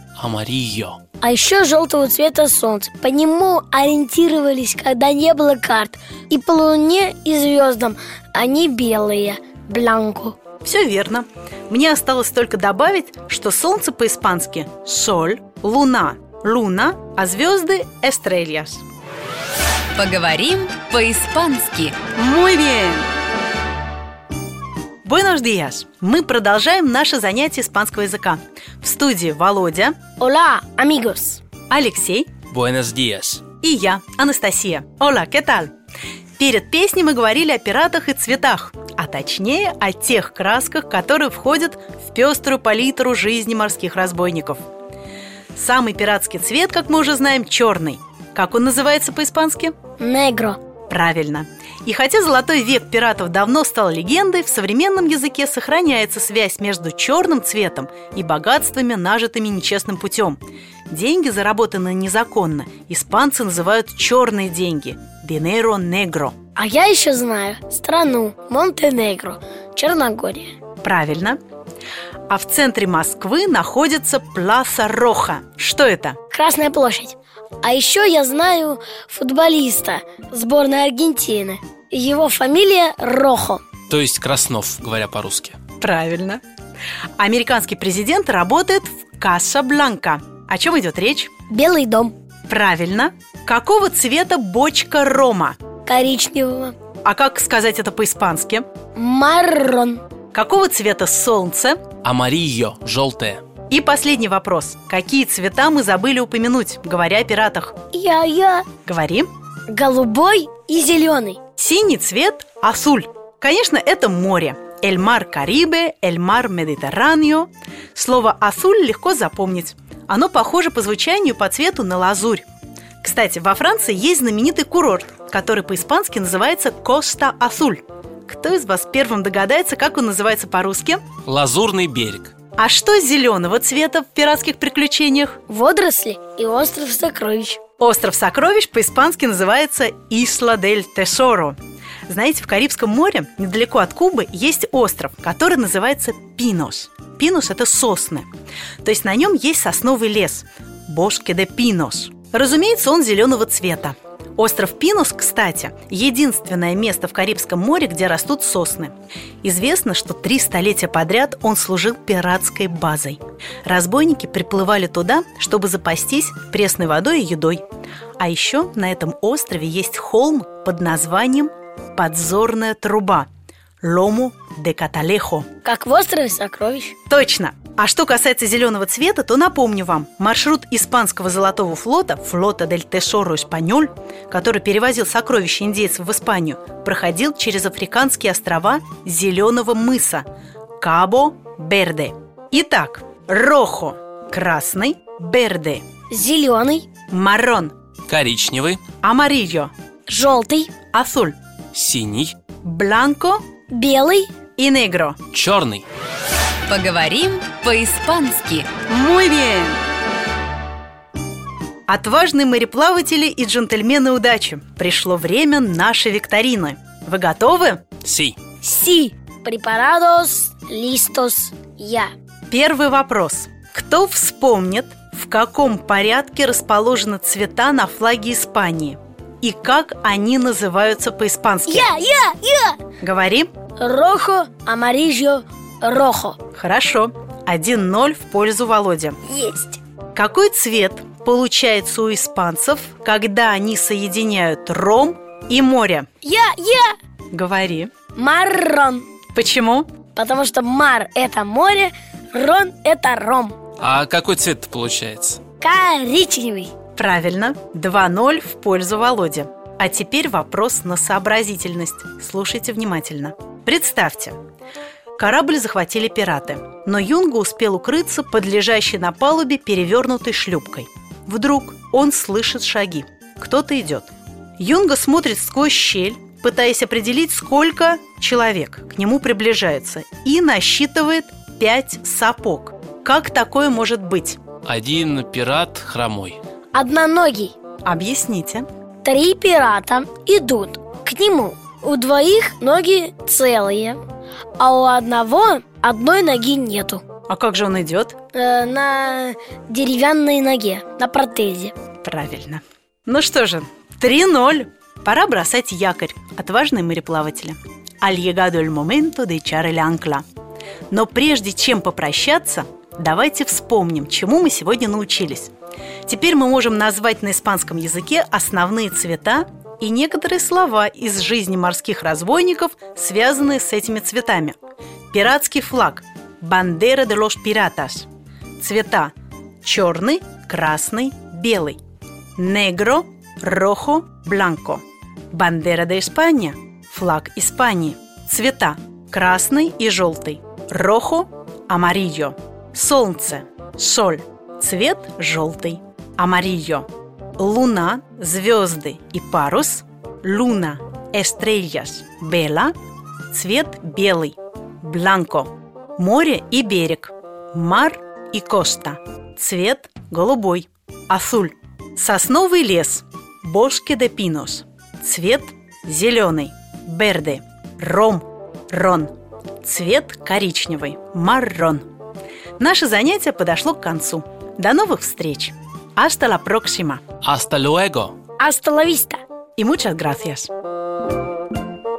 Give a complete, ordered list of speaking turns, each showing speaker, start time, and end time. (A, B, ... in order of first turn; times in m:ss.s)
0:00.2-0:01.0 A
0:01.2-0:10.4 B
0:10.6-0:18.8 C
0:20.0-0:22.0 D
0:22.2-0:23.1 C
0:25.0-0:29.9 C
0:30.2-0:31.4 B
0:31.7-0:32.3 C
0:32.5-0:33.4 A
0:33.6-0:35.7 C
0:36.4-0:44.6 C
0:45.5-0:49.7 C
0:50.0-0:50.6 B
0:50.9-1:06.3 C
1:06.6-1:10.5 B
1:10.8-1:11.4 C
1:12.3-1:16.2 C
1:16.3-1:23.6 B
1:23.9-1:25.6 A
1:25.8-1:26.4 C
1:27.2-1:31.3 C
1:31.5-1:32.1 B
1:32.5-1:35.6 C
1:35.8-1:36.7 B
1:37.0-1:38.6 C
1:38.9-1:40.0 B
1:40.3-1:41.8 C
1:42.0-1:43.4 A
1:43.7-1:47.8 C
1:47.9-1:48.7 B
1:48.8-1:49.3 C
1:49.7-1:51.4 B
1:51.6-2:02.4 C
2:03.0-2:11.0 C
2:11.2-2:12.3 A
2:12.6-2:15.4 C
2:15.5-2:17.6 B
2:17.8-2:21.6 C
2:22.1-2:28.3 C
2:28.8-2:47.6 C
2:48.2-2:53.3 C
2:53.8-2:55.5 C
2:55.6-2:56.9 B
2:57.1-3:10.2 C
3:10.8-3:15.8 C
3:16.1-3:16.9 B
3:17.1-3:17.7 C
3:18.1-3:18.8 A
3:19.0-3:19.7 C
3:20.1-3:20.7 B
3:20.9-3:21.4 C
3:21.7-3:22.3 A
3:22.6-3:23.4 C
3:23.7-3:24.3 B
3:24.6-3:25.2 C
3:25.3-3:25.8 A
3:26.7-3:28.7 D
3:28.9-3:29.8 C
3:31.9-3:37.8 C
3:38.0-3:38.4 A
3:38.6-3:42.1 B
3:42.5-3:51.9 C
3:51.7-3:52.8 B
3:53.0-3:53.5 C
3:53.8-3:56.4 B
3:56.5-3:59.2 C
3:59.2-3:59.8 B
4:00.1-4:06.0 C
4:06.2-4:06.9 B
4:07.3-4:07.9 C
4:08.1-4:09.0 B
4:09.3-4:09.9 C
4:10.1-4:13.6 B
4:13.8-4:15.4 A
4:15.6-4:16.7 B
4:17.0-4:24.4 C
4:25.2-4:44.4 C
4:44.6-4:46.4 A
4:46.7-4:47.5 B
4:47.8-4:48.6 C
4:49.0-4:54.0 B
4:54.6-4:57.0 B
4:57.3-4:58.2 C
4:58.3-5:01.7 B
5:02.0-5:10.2 C
5:10.9-5:15.5 C
5:16.0-5:24.6 C
5:25.1-5:28.1 C
5:28.6-5:29.1 C
5:29.6-5:31.8 C
5:32.4-5:52.7 C
5:53.3-6:09.1 C
6:09.6-6:11.8 C
6:12.6-6:17.0 C
6:17.2-6:18.2 A
6:18.4-6:19.2 B
6:19.6-6:20.5 C